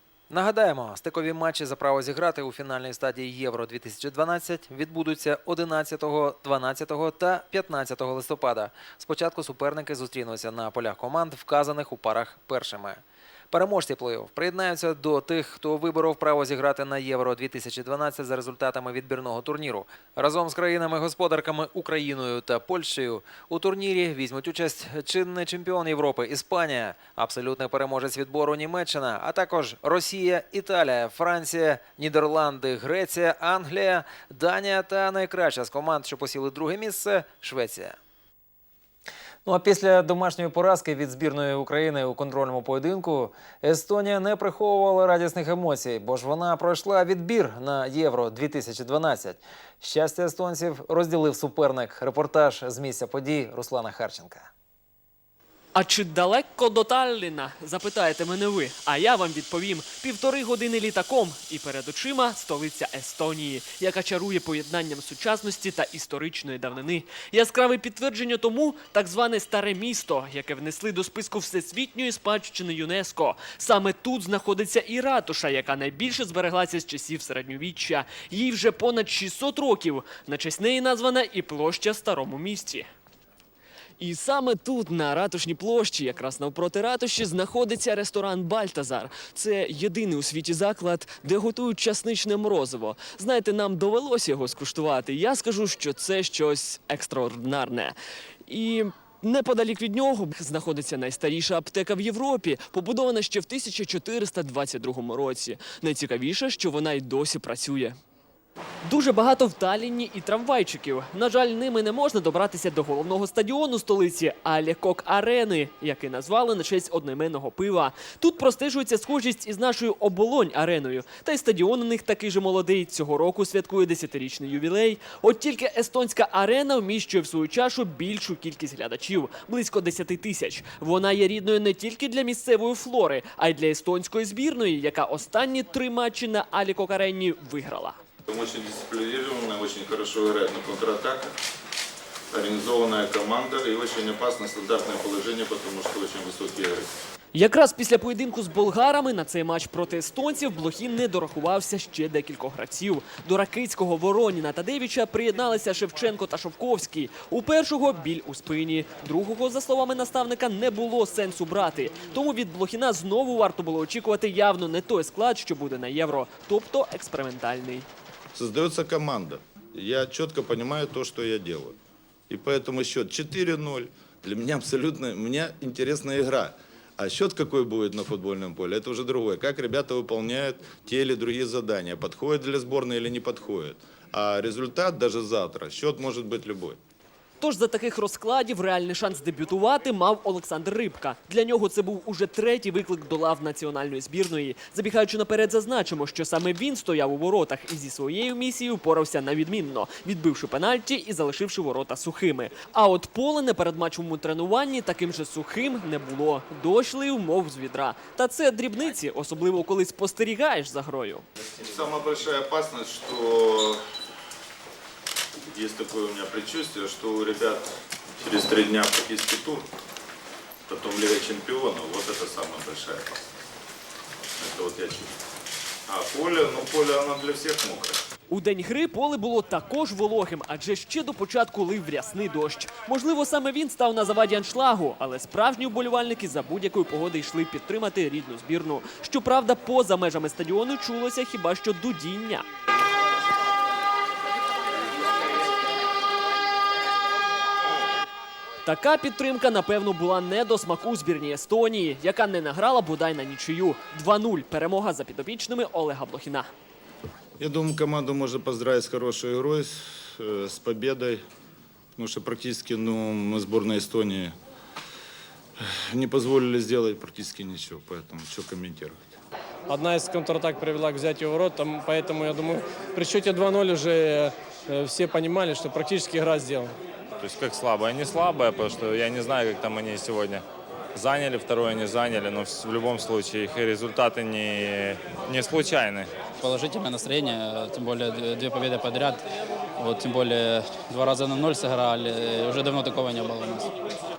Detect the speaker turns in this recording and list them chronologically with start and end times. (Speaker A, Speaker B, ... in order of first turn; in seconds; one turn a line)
Speaker A: 0.3-38.0
Speaker A: 39.5-54.5
Speaker B: 55.8-82.9
Speaker B: 84.0-108.0
Speaker B: 108.8-138.0
Speaker C: 138.3-141.3
Speaker C: 142.3-146.9
Speaker B: 147.3-167.9
Speaker C: 168.3-171.8
Speaker C: 172.3-186.8
Speaker B: 187.4-211.3
Speaker C: 211.6-213.8
Speaker C: 215.5-217.7
Speaker C: 218.2-219.7
Speaker C: 220.7-223.3
Speaker C: 224.4-225.1
Speaker C: 225.9-228.0
Speaker B: 228.3-242.5
Speaker B: 248.7-256.5
Speaker C: 257.4-261.2
Speaker C: 262.0-264.4
Speaker C: 265.6-269.0
Speaker D: 269.7-276.7
Speaker E: 277.2-280.4
Speaker E: 281.0-286.1
Speaker F: 286.4-289.2
Speaker F: 289.8-293.7